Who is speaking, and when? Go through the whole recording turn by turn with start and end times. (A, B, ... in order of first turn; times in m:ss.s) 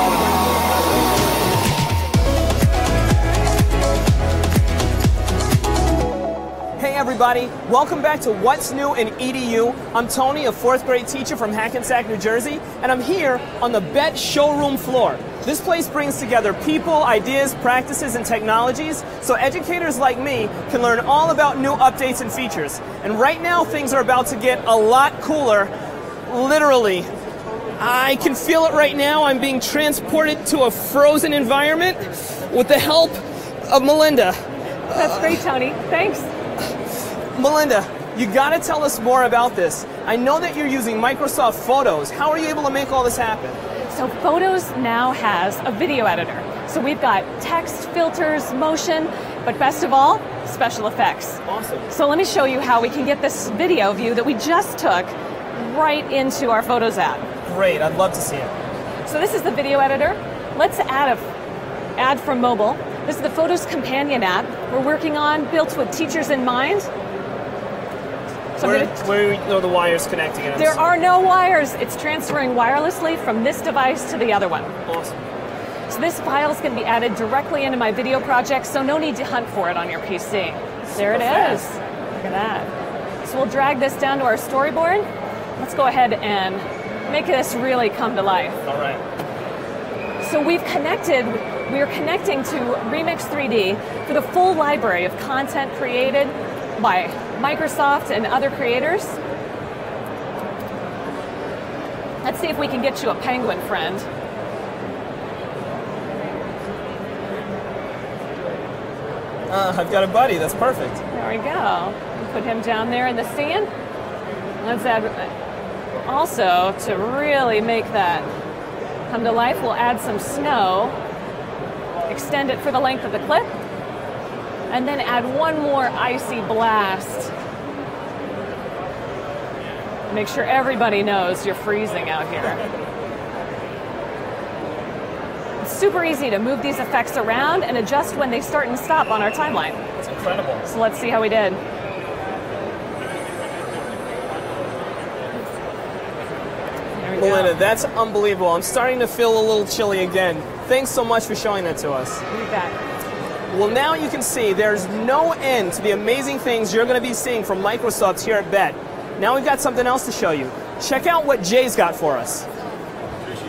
0:06.8-0:25.7 A
0:26.3-0:27.1 A
0:27.8-0:34.4 A
0:34.9-0:36.3 B
0:34.9-0:35.3 A
0:37.4-0:43.6 A
0:43.9-0:57.2 B
0:51.5-0:51.9 A
0:57.5-0:58.5 A
0:59.0-1:01.2 B
1:02.0-1:06.9 B
1:08.6-1:08.9 B
1:08.6-1:10.8 A
1:10.6-1:14.7 B
1:14.9-1:15.2 A
1:15.9-1:22.7 B
1:21.1-1:21.5 A
1:23.2-1:25.1 B
1:25.6-1:28.6 B
1:28.7-1:29.0 A
1:30.2-1:39.2 B
1:42.2-1:44.0 B
1:49.5-1:51.0 A
1:51.1-1:53.7 B
1:54.6-1:55.3 B
1:56.1-1:58.3 B
1:59.1-2:01.0 B
2:02.1-2:03.5 B
2:04.7-2:07.3 B
2:10.1-2:12.6 B
2:15.6-2:19.8 B
2:20.0-2:20.6 A
2:20.6-2:21.6 B
2:27.0-2:27.6 B
2:27.2-2:32.2 A
2:32.3-2:32.8 B
2:33.5-2:42.5 A